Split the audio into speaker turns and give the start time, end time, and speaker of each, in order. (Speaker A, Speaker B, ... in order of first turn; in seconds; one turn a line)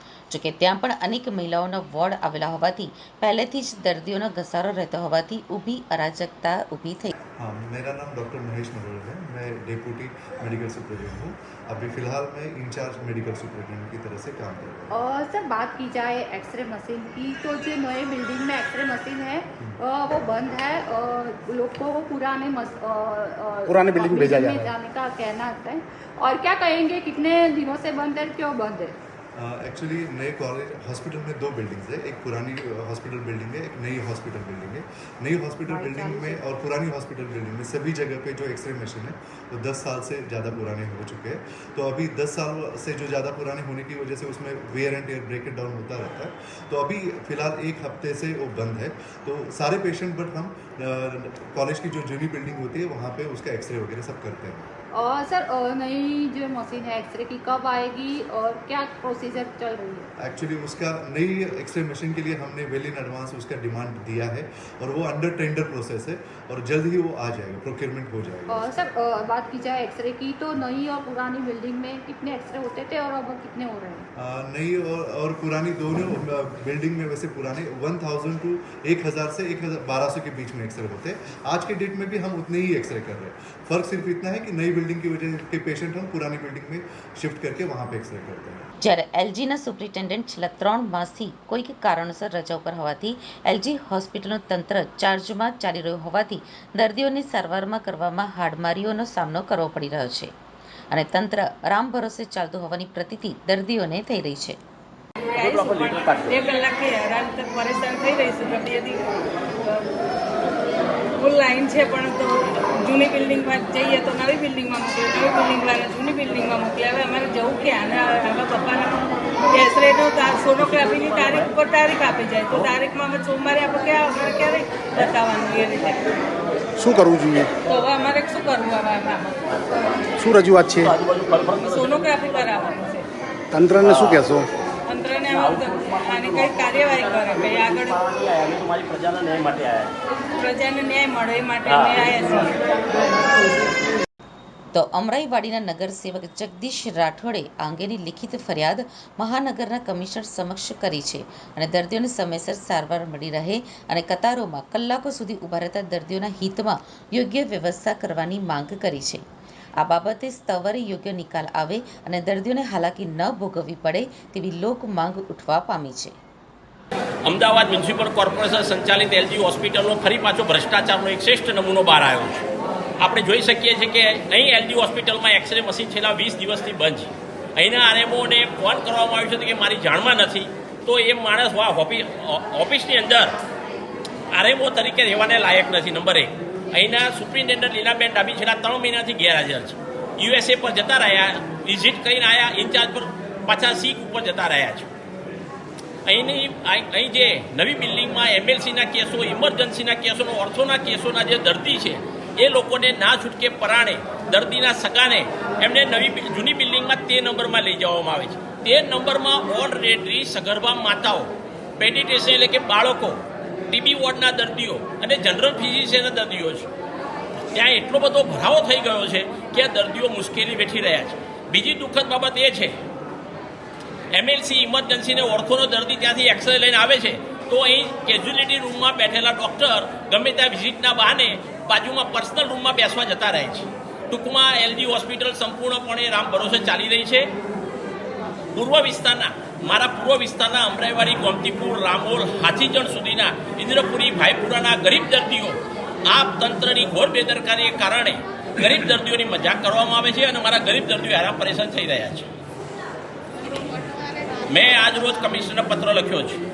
Speaker A: 0.3-7.2
Speaker B: 7.4-15.0
Speaker C: 14.9-28.9
Speaker D: 23.7-24.7
Speaker B: 29.4-54.7
Speaker C: 35.7-36.4
Speaker C: 54.9-60.1
Speaker B: 60.2-68.7
Speaker C: 68.5-74.1
Speaker B: 74.2-88.7
Speaker A: 88.8-100.3
Speaker A: 100.9-104.6
Speaker E: 105.3-109.0
Speaker F: 105.4-106.4
Speaker E: 111.2-126.0
Speaker F: 120.6-121.5
Speaker D: 126.8-127.5
Speaker E: 127.6-129.3
Speaker D: 130.2-130.9
Speaker F: 130.8-132.7
Speaker E: 131.6-133.1
Speaker D: 133.5-134.5
Speaker F: 133.8-134.3
Speaker E: 134.9-138.0
Speaker F: 135.3-139.9
Speaker E: 140.3-142.5
Speaker F: 141.7-142.1
Speaker A: 144.7-159.2
Speaker A: 159.8-166.1
Speaker F: 167.2-172.4
Speaker F: 173.0-183.4
Speaker F: 184.3-194.9
Speaker F: 196.1-216.7
Speaker F: 217.5-222.8
Speaker F: 224.1-237.3
Speaker F: 238.5-252.3
Speaker F: 254.5-256.4